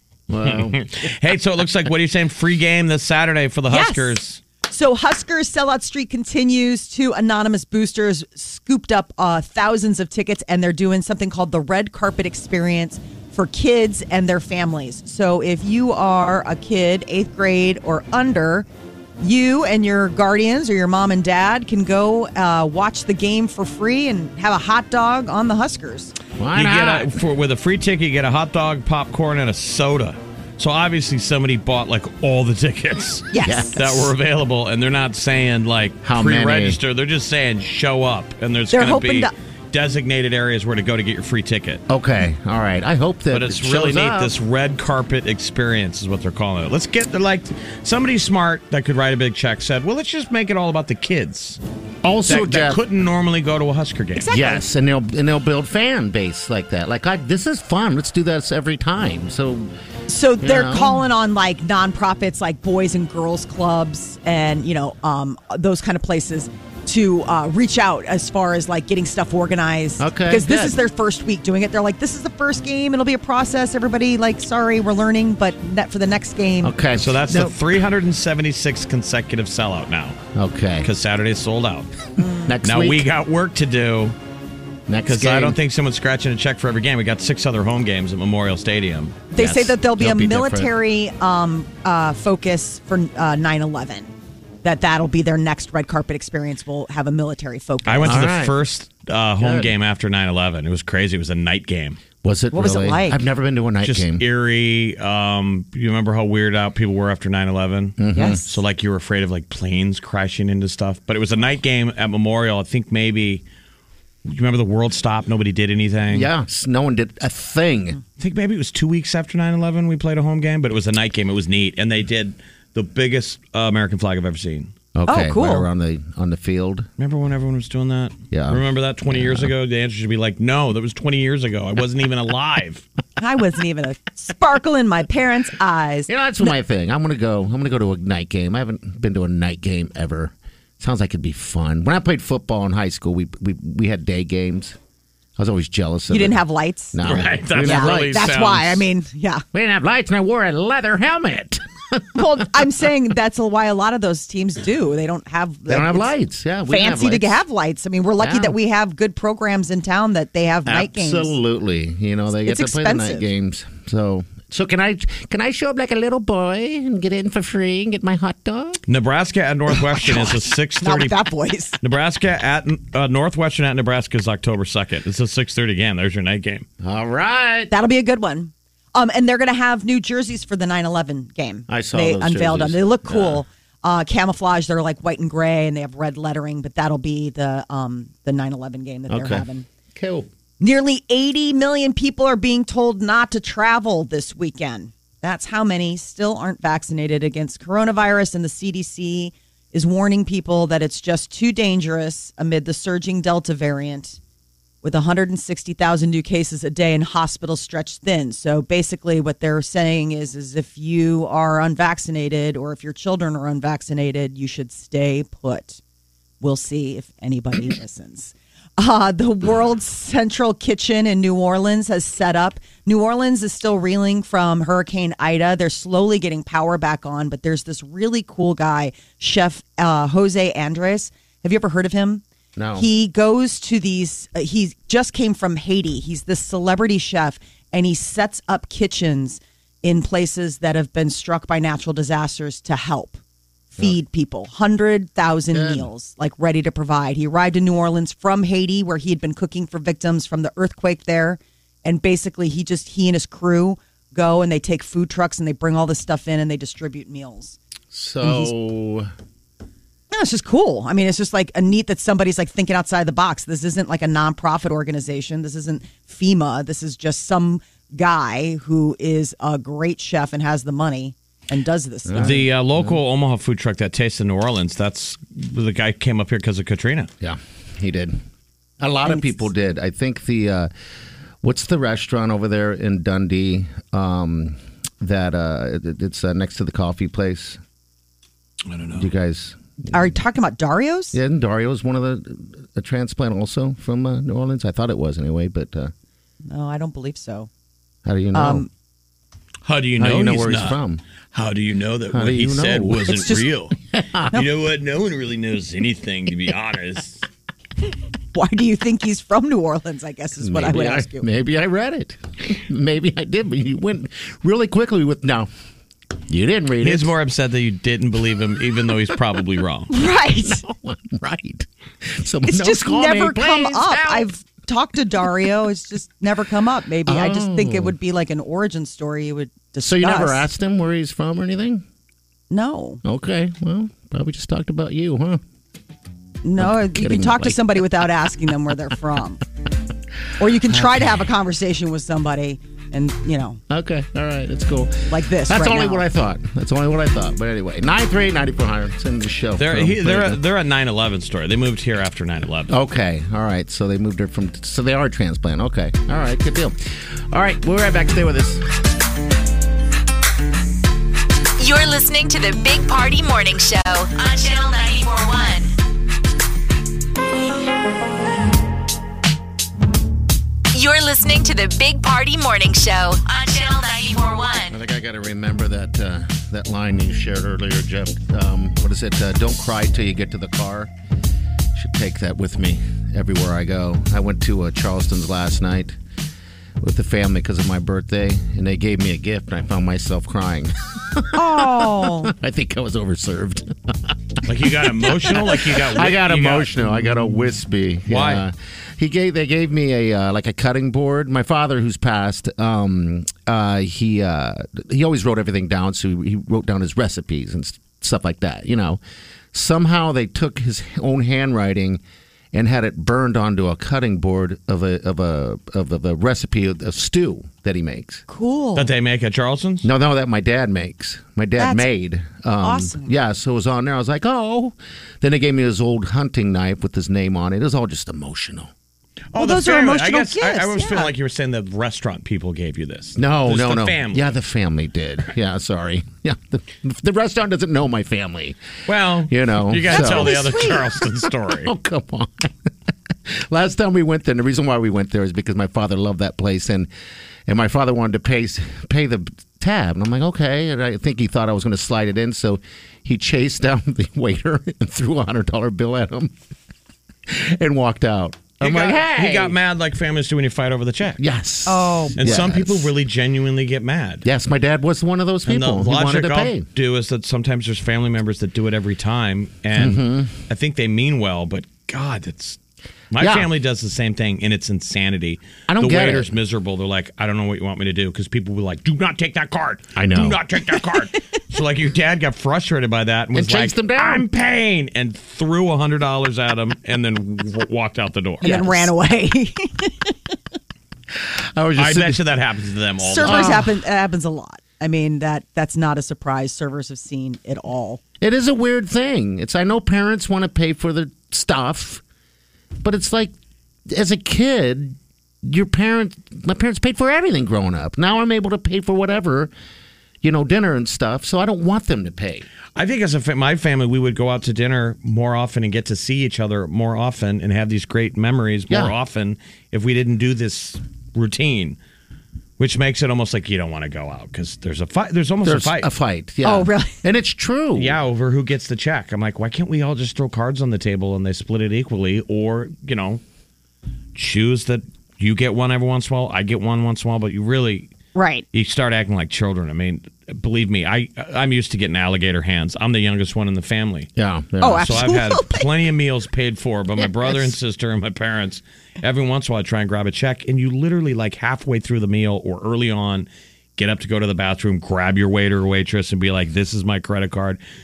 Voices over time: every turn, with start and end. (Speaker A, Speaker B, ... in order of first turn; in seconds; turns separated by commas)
Speaker A: 0.3-0.8, Speaker B: 0.4-4.4, Speaker C: 3.7-4.2, Speaker C: 4.7-18.7, Speaker C: 19.2-26.1, Speaker A: 26.4-27.2, Speaker B: 26.5-41.8, Speaker C: 33.3-33.9, Speaker A: 33.4-34.1, Speaker A: 36.0-36.8, Speaker C: 38.7-39.3, Speaker A: 41.9-44.4, Speaker B: 43.3-51.6, Speaker A: 52.0-52.8, Speaker B: 52.3-54.4, Speaker C: 54.2-54.6, Speaker A: 54.3-59.7, Speaker C: 60.1-76.8, Speaker A: 60.4-61.0, Speaker A: 70.0-70.8, Speaker A: 76.6-77.6, Speaker B: 77.0-80.2, Speaker A: 80.3-80.9, Speaker B: 80.8-81.9, Speaker C: 82.2-82.5, Speaker A: 82.5-83.1, Speaker B: 82.6-84.2, Speaker A: 84.9-85.6, Speaker B: 85.1-89.2, Speaker C: 89.3-94.1, Speaker A: 89.4-90.7, Speaker C: 94.6-98.2, Speaker B: 97.8-102.0, Speaker A: 98.0-98.6, Speaker A: 99.4-99.7, Speaker A: 102.2-104.2, Speaker C: 102.5-103.2, Speaker B: 103.8-113.4, Speaker A: 108.0-108.4, Speaker C: 108.1-108.5, Speaker B: 114.2-116.3, Speaker A: 116.1-118.0, Speaker B: 118.2-124.7, Speaker A: 125.0-126.9, Speaker C: 125.1-125.7, Speaker B: 127.0-132.8, Speaker A: 128.3-129.5, Speaker C: 133.2-136.5, Speaker A: 136.1-144.8, Speaker A: 145.4-146.4, Speaker C: 146.1-147.0, Speaker A: 146.9-148.3, Speaker B: 147.0-148.9, Speaker C: 147.6-149.4, Speaker A: 149.5-152.4, Speaker C: 152.2-156.1, Speaker A: 155.7-157.4, Speaker C: 156.7-161.4, Speaker A: 158.2-158.6, Speaker A: 160.7-168.8, Speaker C: 162.5-163.3, Speaker B: 168.9-171.2, Speaker C: 170.0-171.8, Speaker B: 171.8-176.7, Speaker A: 176.8-177.7, Speaker C: 177.7-189.7, Speaker A: 181.7-183.4, Speaker A: 189.1-190.3, Speaker C: 190.6-204.2, Speaker C: 204.8-215.8, Speaker C: 216.4-232.2, Speaker A: 232.6-232.9, Speaker C: 232.8-243.2, Speaker C: 243.7-257.6, Speaker A: 245.5-245.9, Speaker A: 257.9-259.1, Speaker C: 258.2-258.5, Speaker C: 260.1-272.5, Speaker A: 272.1-273.0, Speaker B: 272.2-277.1, Speaker A: 277.2-278.2, Speaker A: 278.8-280.7, Speaker C: 279.1-279.4, Speaker A: 281.4-287.6, Speaker B: 288.7-289.1, Speaker A: 288.9-290.2, Speaker C: 289.9-291.2, Speaker A: 291.1-295.9, Speaker C: 296.5-297.5, Speaker A: 298.1-298.7, Speaker C: 298.3-298.7, Speaker B: 299.6-300.8, Speaker A: 300.0-301.0, Speaker B: 301.3-303.8, Speaker A: 302.1-303.4, Speaker C: 303.1-303.5, Speaker A: 303.9-304.4, Speaker B: 304.3-307.2, Speaker C: 308.3-311.3, Speaker A: 310.4-315.5, Speaker A: 316.3-317.1, Speaker B: 316.8-319.9, Speaker C: 319.9-320.6, Speaker A: 320.4-324.3, Speaker C: 322.5-330.5, Speaker A: 327.1-327.9, Speaker A: 329.8-331.8, Speaker C: 332.5-333.0, Speaker A: 333.0-335.4, Speaker C: 336.4-339.4, Speaker A: 336.6-337.9, Speaker C: 340.4-343.6, Speaker A: 340.7-341.1, Speaker A: 343.7-350.4, Speaker C: 345.1-346.1, Speaker B: 349.6-352.8, Speaker A: 352.7-358.7, Speaker D: 361.6-365.7, Speaker D: 370.7-374.8, Speaker A: 374.7-380.9, Speaker A: 381.8-386.0, Speaker A: 386.8-409.0, Speaker C: 391.3-392.3, Speaker B: 394.5-397.3, Speaker B: 398.1-398.4, Speaker A: 409.5-412.0, Speaker A: 412.5-418.2, Speaker C: 418.3-418.9, Speaker B: 418.8-419.9, Speaker A: 419.8-428.7, Speaker C: 421.6-421.9, Speaker C: 422.6-423.1, Speaker B: 429.3-434.4, Speaker C: 429.4-431.1, Speaker A: 433.2-438.6, Speaker B: 438.9-441.7, Speaker A: 439.2-442.7, Speaker C: 439.9-440.9, Speaker A: 443.3-446.9, Speaker A: 447.5-456.3, Speaker A: 457.3-459.6, Speaker B: 458.6-461.2, Speaker A: 461.2-462.9, Speaker C: 461.7-462.3, Speaker B: 462.2-464.2, Speaker A: 464.2-466.7, Speaker B: 465.5-472.6, Speaker A: 469.8-470.3, Speaker B: 473.1-488.9, Speaker A: 473.2-473.5, Speaker A: 475.7-476.3, Speaker A: 480.0-480.4, Speaker A: 483.3-484.3, Speaker C: 488.4-490.1, Speaker A: 491.2-492.2, Speaker B: 491.8-493.6, Speaker C: 493.0-498.0, Speaker A: 493.2-493.7, Speaker A: 498.2-502.0, Speaker A: 502.8-503.4, Speaker A: 503.9-509.5, Speaker A: 510.2-512.5, Speaker B: 512.8-521.8, Speaker A: 518.7-518.9, Speaker B: 522.6-525.9, Speaker A: 525.4-528.0, Speaker C: 526.4-527.0, Speaker B: 527.8-533.2, Speaker B: 534.1-537.9, Speaker C: 538.1-538.5, Speaker B: 538.5-544.1, Speaker A: 544.2-545.1, Speaker C: 544.6-545.7, Speaker B: 544.8-557.6